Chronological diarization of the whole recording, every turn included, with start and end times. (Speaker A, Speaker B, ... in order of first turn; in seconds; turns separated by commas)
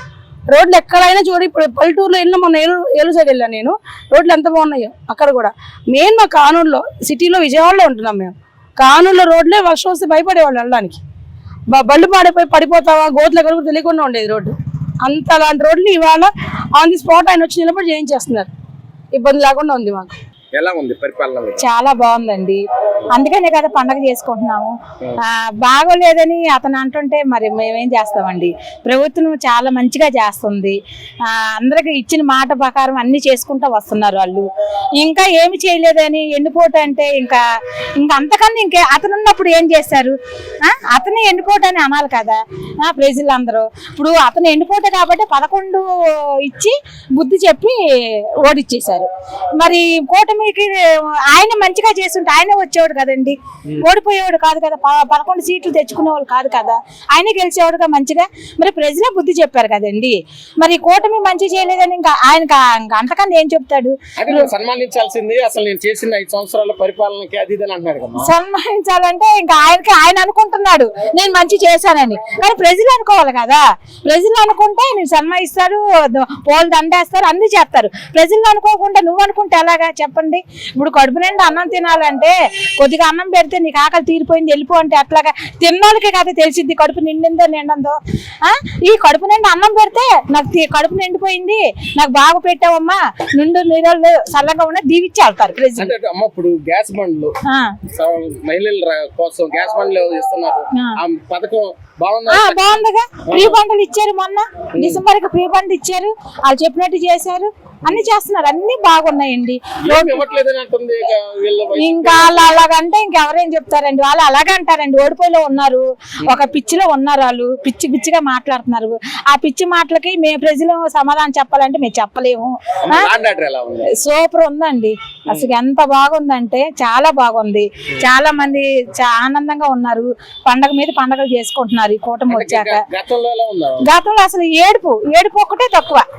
Speaker A: 0.5-11.0, Speaker A: 11.7-18.5, Speaker A: 19.1-20.1, Speaker B: 20.5-21.6, Speaker C: 21.6-22.6, Speaker C: 23.1-34.5, Speaker C: 35.0-37.4, Speaker C: 38.0-45.8, Speaker C: 46.4-47.8, Speaker C: 48.4-64.5, Speaker B: 64.2-68.3, Speaker C: 68.2-95.9, Speaker B: 95.8-97.3, Speaker C: 97.5-97.7, Speaker B: 97.9-103.6, Speaker C: 102.3-110.2, Speaker B: 104.7-105.0, Speaker B: 109.8-112.6, Speaker C: 111.8-123.1, Speaker B: 122.8-124.0, Speaker C: 123.9-132.8, Speaker B: 132.3-133.8, Speaker C: 133.8-136.0